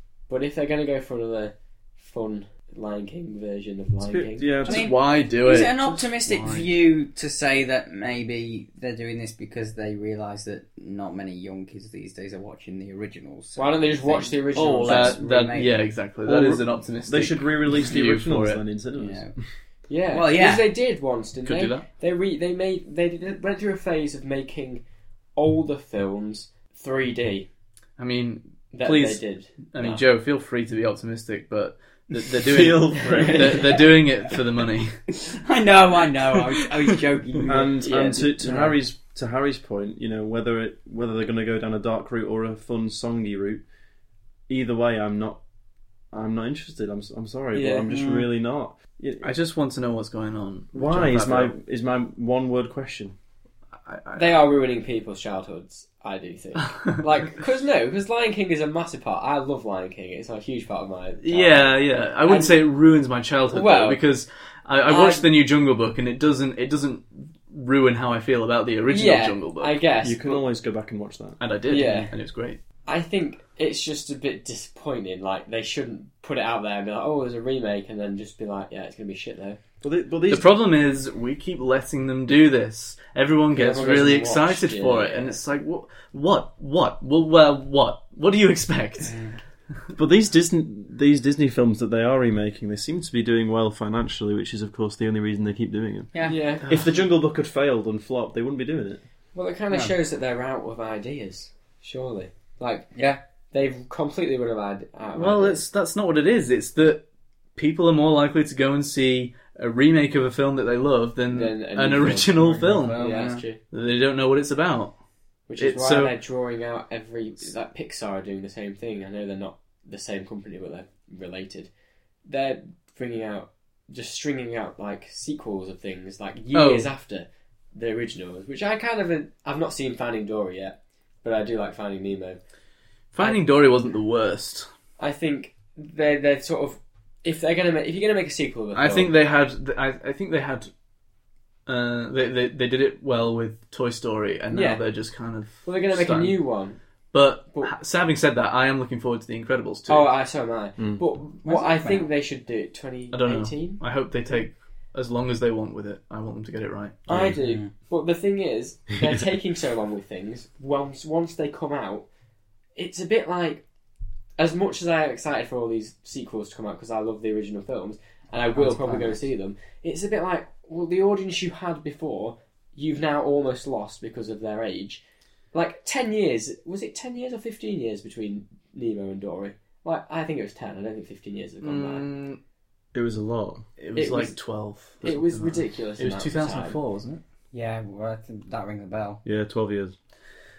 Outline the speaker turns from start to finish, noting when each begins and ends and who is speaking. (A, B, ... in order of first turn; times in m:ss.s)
0:00.3-0:04.5 A
0:04.0-0:04.9 B
0:04.6-0:06.7 C
0:04.6-0:15.8 D
0:13.6-0:15.2 A
0:14.6-0:18.6 C
0:16.2-0:19.4 B
0:18.9-0:19.3 D
0:19.9-0:24.8 A
0:20.1-0:20.7 D
0:21.4-0:21.8 C
0:25.3-0:27.5 A
0:28.0-0:35.0 C
0:28.7-0:30.0 A
0:32.4-0:33.7 B
0:33.0-0:33.8 A
0:35.3-0:38.8 D
0:37.5-0:43.6 B
0:37.8-0:38.3 A
0:44.5-0:45.4 B
0:46.1-0:49.3 B
0:47.5-0:47.9 A
0:47.9-0:48.2 D
0:49.2-0:51.5 C
0:50.7-0:53.1 B
0:53.8-0:54.4 C
0:54.2-1:02.6 A
1:01.2-1:09.8 C
1:03.5-1:04.0 A
1:04.8-1:05.3 A
1:08.9-1:10.4 A
1:10.0-1:11.4 B
1:11.4-1:12.6 C
1:11.7-1:12.1 A
1:12.8-1:19.6 A
1:19.8-1:20.5 B
1:20.3-1:29.1 C
1:23.5-1:25.4 A
1:29.1-1:29.4 D
1:30.0-1:36.1 B
1:36.1-1:36.4 D
1:36.2-1:36.7 A
1:36.7-1:39.0 B
1:39.3-1:43.0 A
1:42.9-1:43.2 D
1:43.5-1:45.6 A
1:45.1-1:55.0 C
1:51.3-1:53.6 A
1:52.5-1:53.4 D
1:55.5-2:01.7 A
1:55.6-1:56.2 C
2:02.2-2:12.4 A
2:06.5-2:06.9 C
2:13.1-2:14.7 C
2:15.0-2:19.1 A
2:18.7-2:20.7 C
2:21.6-2:26.4 C
2:24.5-2:24.8 A
2:25.6-2:26.8 A
2:27.1-2:30.1 C
2:29.9-2:33.8 A
2:31.4-2:32.1 D
2:33.1-2:37.1 C
2:37.1-2:37.4 B
2:37.1-2:42.1 A
2:37.4-2:37.7 D
2:42.7-2:43.6 A
2:44.4-2:55.0 A
2:48.5-2:49.2 D
2:55.5-3:02.0 A
3:01.6-3:02.4 C
3:02.9-3:03.6 B
3:03.8-3:07.2 C
3:04.0-3:04.4 A
3:05.0-3:06.8 A
3:07.5-3:09.2 D
3:09.2-3:09.9 B